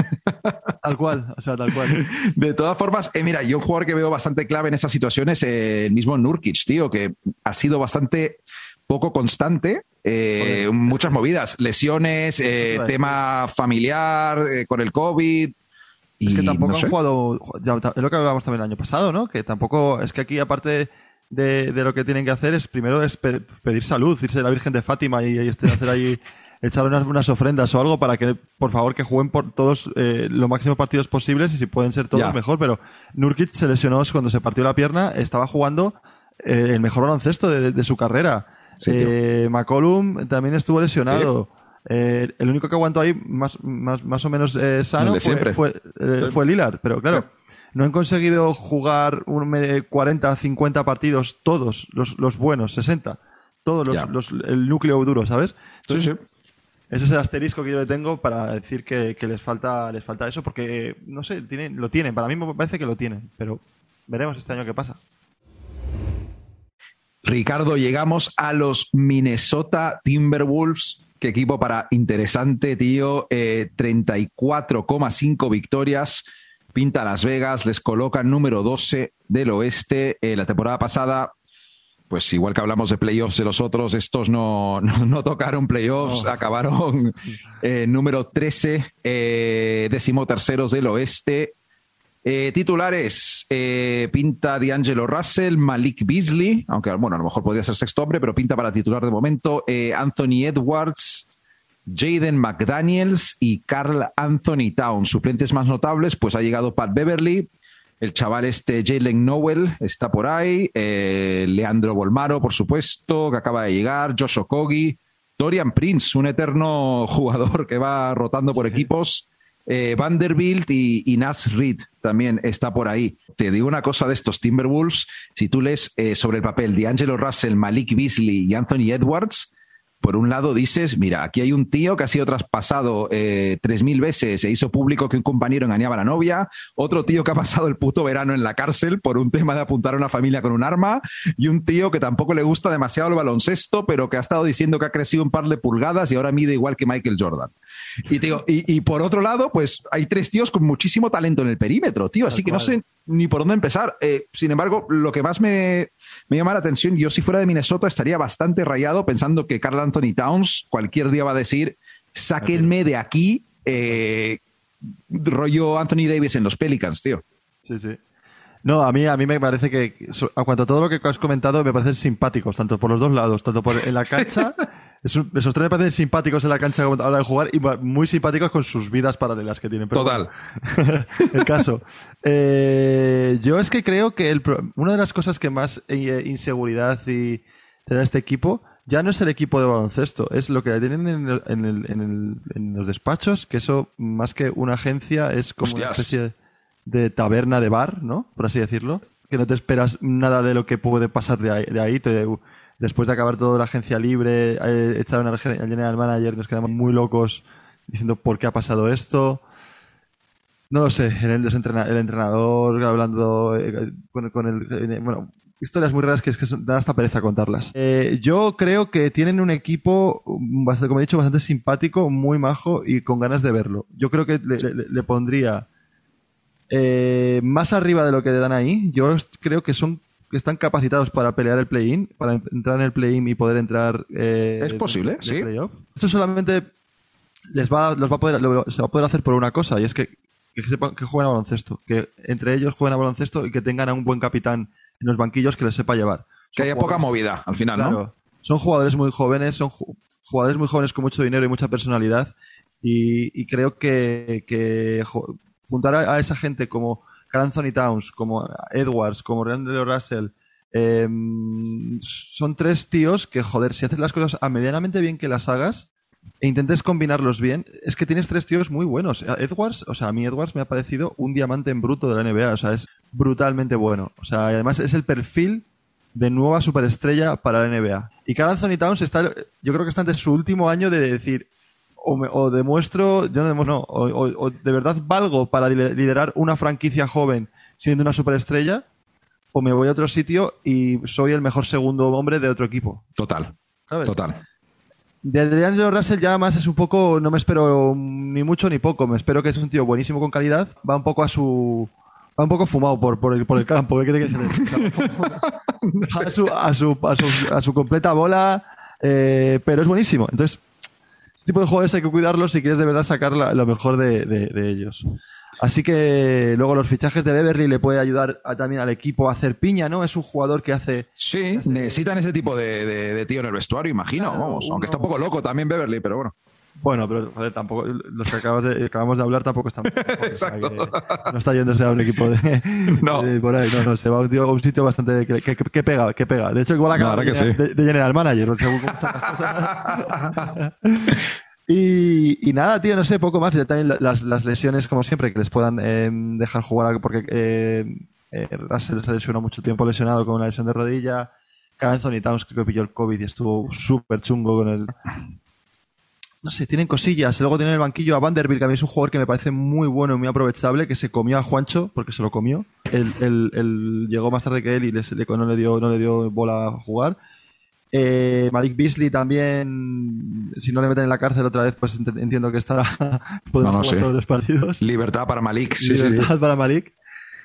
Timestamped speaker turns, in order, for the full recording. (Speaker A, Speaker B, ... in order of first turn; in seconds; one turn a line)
Speaker A: 0.3-0.7
Speaker B: 0.8-2.1
Speaker A: 1.9-15.5
Speaker B: 10.4-11.1
Speaker B: 12.5-13.2
Speaker A: 16.2-16.9
Speaker B: 16.3-56.1
Speaker A: 38.8-39.1
Speaker A: 45.0-45.6
Speaker A: 55.9-56.2
Speaker B: 56.9-65.0
Speaker A: 67.2-81.3
Speaker A: 82.1-91.5
Speaker B: 86.0-86.5
Speaker A: 92.2-101.3
Speaker A: 101.9-107.5
Speaker A: 108.0-129.5
Speaker B: 118.5-118.9
Speaker A: 130.0-147.5
Speaker A: 148.1-164.4
Speaker B: 152.3-152.8
Speaker B: 162.4-162.7
Speaker A: 165.1-167.2
Speaker B: 167.7-168.0
Speaker B: 168.6-196.3
Speaker A: 179.9-180.3
Speaker A: 181.2-181.4
Speaker A: 195.6-196.2
Speaker B: 196.9-209.4
Speaker B: 210.7-225.7
Speaker B: 226.7-236.7
Speaker A: 234.6-235.5
Speaker B: 237.5-247.1
Speaker A: 246.6-248.0
Speaker B: 247.8-265.9
Speaker B: 266.4-281.5
Speaker B: 282.0-288.8
Speaker B: 289.5-293.0
Speaker A: 293.2-294.4
Speaker B: 293.9-294.2
Speaker B: 295.2-305.4
Speaker A: 304.6-306.4
Speaker B: 306.1-310.6
Speaker B: 311.4-315.0
Speaker B: 315.6-322.0
Speaker A: 321.2-326.3
Speaker B: 324.2-325.1
Speaker B: 326.8-355.0
Speaker A: 329.9-331.3
Speaker A: 332.9-333.3
Speaker A: 336.9-337.6
Speaker A: 339.0-340.6
Speaker B: 356.4-367.2
Speaker B: 367.9-374.8
Speaker A: 373.6-374.1
Speaker A: 374.8-376.3
Speaker B: 375.8-376.9